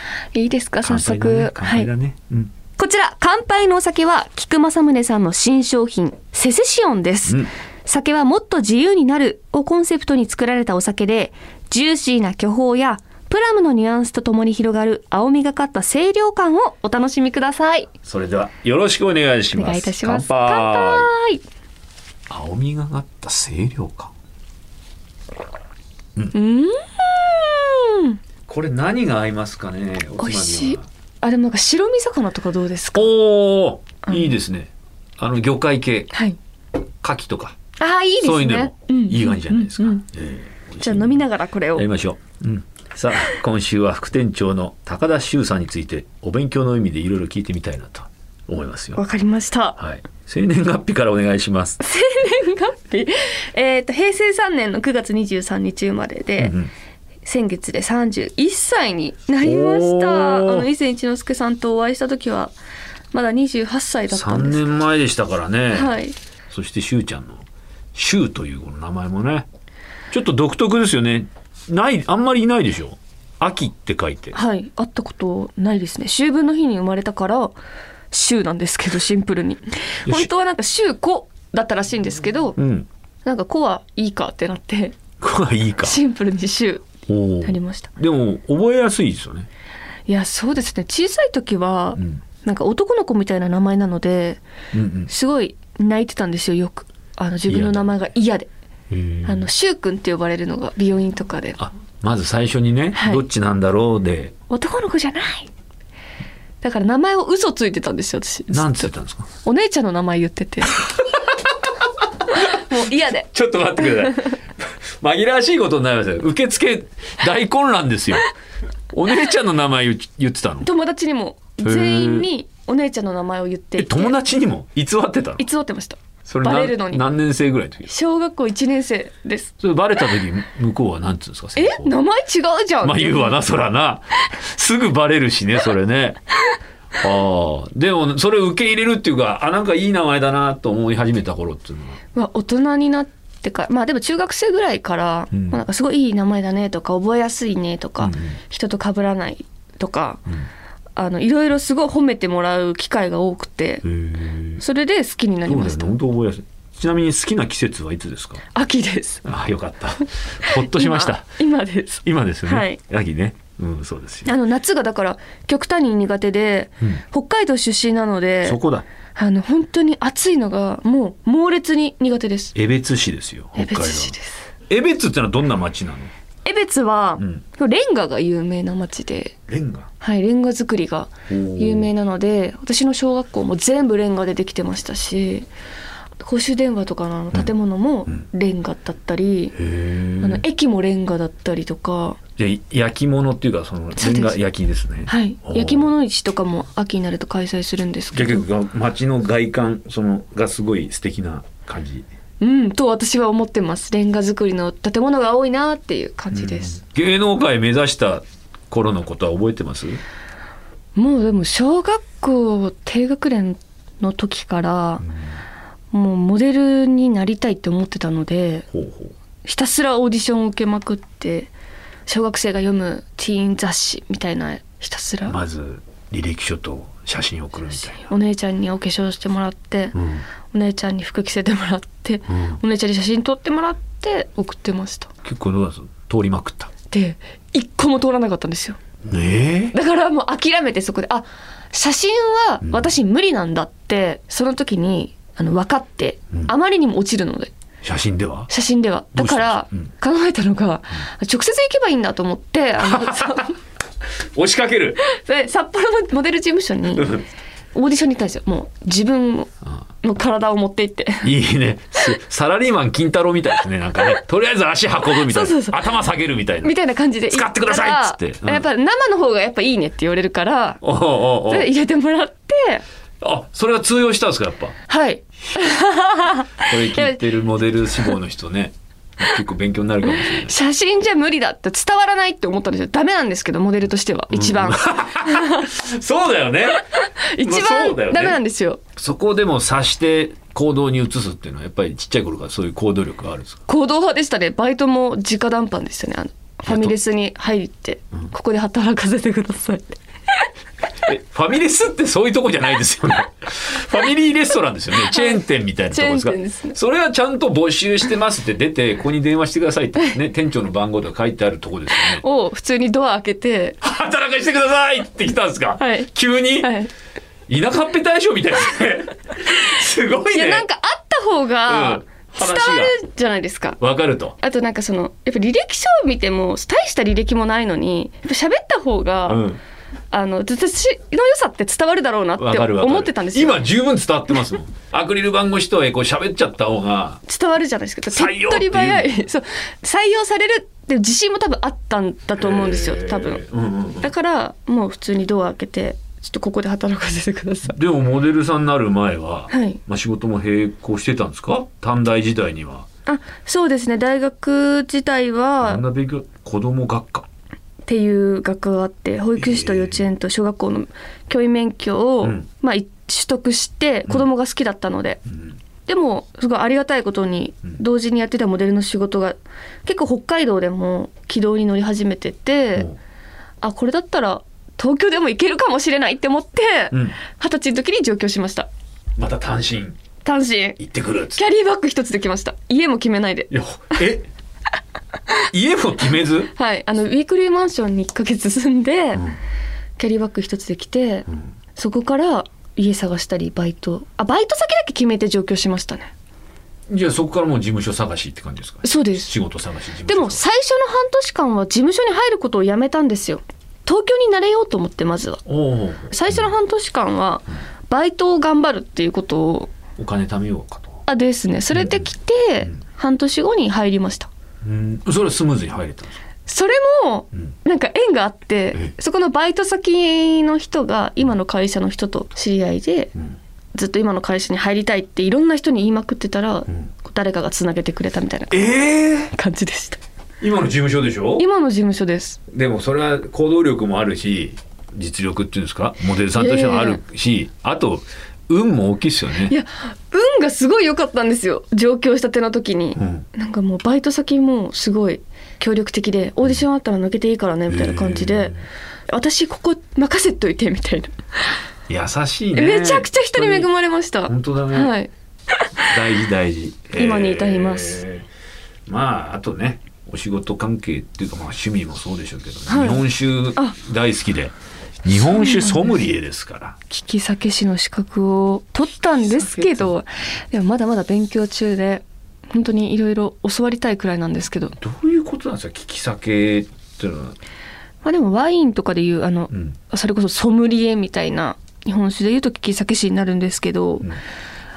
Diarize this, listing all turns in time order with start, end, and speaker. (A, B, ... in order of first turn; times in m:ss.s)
0:00.3-0:01.9 A
0:00.8-0:02.5 B
0:02.8-0:17.9 A
0:18.0-0:21.1 B
0:19.5-0:21.4 A
0:22.3-0:24.1 B
0:26.3-0:28.2 A
0:28.5-0:30.9 B
0:30.2-0:33.1 A
0:32.9-0:36.1 B
0:36.1-0:36.4 A
0:37.0-0:37.6 B
0:37.8-0:40.0 A
0:38.2-0:41.2 B
0:40.8-0:41.9 A
0:41.8-0:49.0 B
0:49.0-0:49.8 A
0:49.8-0:51.8 B
0:51.8-0:56.5 A
0:56.4-0:56.7 B
0:57.2-1:02.5 A
0:59.4-1:00.7 B
1:03.1-1:04.6 A
1:04.1-1:05.9 B
1:05.7-1:06.2 A
1:06.5-1:09.5 B
1:10.1-1:14.4 B
1:14.3-1:17.6 A
1:18.1-1:22.6 A
1:22.6-1:22.9 B
1:23.2-1:25.0 A
1:25.2-1:26.0 B
1:25.8-1:26.8 A
1:27.1-1:29.5 B
1:27.4-1:27.9 A
1:30.1-1:34.4 A
1:32.0-1:32.2 B
1:34.7-1:35.1 B
1:35.1-1:38.5 A
1:37.5-1:37.8 B
1:38.9-1:39.5 B
1:39.2-1:41.6 A
1:41.6-1:44.3 B
1:42.9-1:43.2 A
1:44.5-1:45.5 A
1:46.6-1:48.9 A
1:48.5-1:49.3 B
1:49.4-1:50.8 A
1:52.3-1:53.3 A
1:53.3-1:58.3 B
1:53.9-1:54.1 A
1:58.9-2:00.7 B
2:00.6-2:04.2 A
2:01.6-2:02.3 B
2:03.8-2:05.4 B
2:05.4-2:07.0 A
2:06.2-2:07.9 B
2:07.8-2:09.5 A
2:09.6-2:11.9 B
2:11.6-2:13.4 A
2:12.8-2:16.2 B
2:17.0-2:22.0 B
2:22.1-2:30.2 A
2:25.3-2:25.6 B
2:28.0-2:28.4 B
2:31.0-2:33.8 A
2:33.8-2:34.6 B
2:34.6-2:36.0 A
2:35.5-2:38.4 B
2:38.5-2:39.2 A
2:39.2-2:41.3 B
2:40.4-2:42.8 A
2:42.0-2:44.3 B
2:44.2-2:48.6 A
2:48.4-2:48.8 B
2:49.2-2:52.6 A
2:52.6-2:54.1 B
2:53.6-2:54.5 A
2:54.7-2:56.1 B
2:56.4-2:59.4 A
2:59.5-2:59.9 B
3:00.0-3:05.5 A
3:01.3-3:01.9 B
3:06.2-3:09.5 A
3:09.6-3:10.4 B
3:10.2-3:12.2 A
3:12.4-3:15.9 B
3:14.0-3:14.4 A
3:15.1-3:18.5 A
3:18.1-3:22.0 B
3:22.4-3:26.8 A
3:26.3-3:30.0 B
3:31.0-3:35.0 A
3:35.9-3:38.7 A
3:38.7-3:39.1 B
3:39.4-3:41.5 A
3:42.1-3:45.4 A
3:45.3-3:48.1 B
3:48.0-3:50.0 A
3:49.9-3:50.2 B
3:50.5-3:55.1 A
3:52.3-3:52.6 B
3:55.2-3:56.7 B
3:56.9-3:58.8 A
3:59.0-3:59.7 B
3:59.7-4:07.5 A
4:02.6-4:02.9 B
4:07.8-4:08.5 B
4:08.5-4:13.5 A
4:09.1-4:09.9 B
4:12.8-4:13.5 B
4:14.3-4:15.0 B
4:15.0-4:17.1 A
4:17.0-4:17.2 B
4:17.7-4:19.5 A
4:20.0-4:21.3 A
4:21.2-4:26.7 B
4:25.1-4:25.8 A
4:26.6-4:30.8 A
4:27.3-4:28.6 B
4:30.8-4:31.7 B
4:31.4-4:32.8 A
4:33.2-4:34.8 B
4:34.9-4:37.2 A
4:36.6-4:40.5 B
4:40.2-4:45.7 A
4:44.3-4:46.9 B
4:46.7-4:48.8 A
4:47.4-4:48.4 B
4:49.0-4:53.6 B
4:53.7-5:00.5 A
4:56.7-4:56.9 B
5:01.0-5:12.2 B
5:04.9-5:06.8 A
5:12.0-5:13.8 A
5:13.8-5:16.8 B
5:15.8-5:16.9 A
5:17.5-5:20.6 B
5:20.3-5:23.8 A
5:21.7-5:22.9 B
5:23.8-5:24.4 B
5:24.4-5:29.4 A
5:29.3-5:29.6 B
5:30.1-5:33.6 A
5:32.4-5:37.2 B
5:37.3-5:43.4 A
5:38.1-5:39.1 B
5:42.4-5:44.1 B
5:44.0-5:47.8 A
5:47.6-5:52.9 B
5:49.5-5:49.8 A
5:53.0-5:55.8 A
5:55.6-5:57.3 B
5:57.8-6:05.2 A
5:59.4-6:00.0 B
6:02.2-6:02.5 B
6:05.3-6:05.5 B
6:05.9-6:12.9 A
6:13.6-6:18.7 A
6:16.9-6:17.2 B
6:19.2-6:20.0 B
6:20.2-6:20.8 A
6:20.8-6:21.4 B
6:21.3-6:23.5 A
6:23.5-6:24.3 B
6:25.5-6:26.5 B
6:26.5-6:29.2 A
6:30.0-6:36.1 A
6:36.9-6:40.4 B
6:38.8-6:39.3 A
6:40.1-6:45.4 A
6:45.5-6:46.5 B
6:46.1-6:49.7 A
6:50.0-6:51.0 B
6:51.1-6:54.3 A
6:51.7-6:52.0 B
6:54.6-6:56.2 B
6:56.5-7:03.1 A
7:03.7-7:08.7 A
7:08.5-7:09.3 B
7:09.3-7:10.0 A
7:10.4-7:11.4 B
7:11.4-7:12.4 A
7:12.5-7:19.5 B
7:16.3-7:17.0 A
7:19.4-7:28.6 A
7:23.0-7:23.2 B
7:27.7-7:28.6 B
7:29.1-7:31.2 A
7:31.9-7:33.7 B
7:32.5-7:35.1 A
7:34.2-7:34.9 B
7:35.8-7:38.2 B
7:36.9-7:38.0 A
7:38.9-7:46.8 B
7:42.7-7:43.0 A
7:45.2-7:45.9 A
7:46.9-7:54.8 A
7:49.2-7:49.9 B
7:54.8-7:57.4 B
7:58.0-8:04.0 A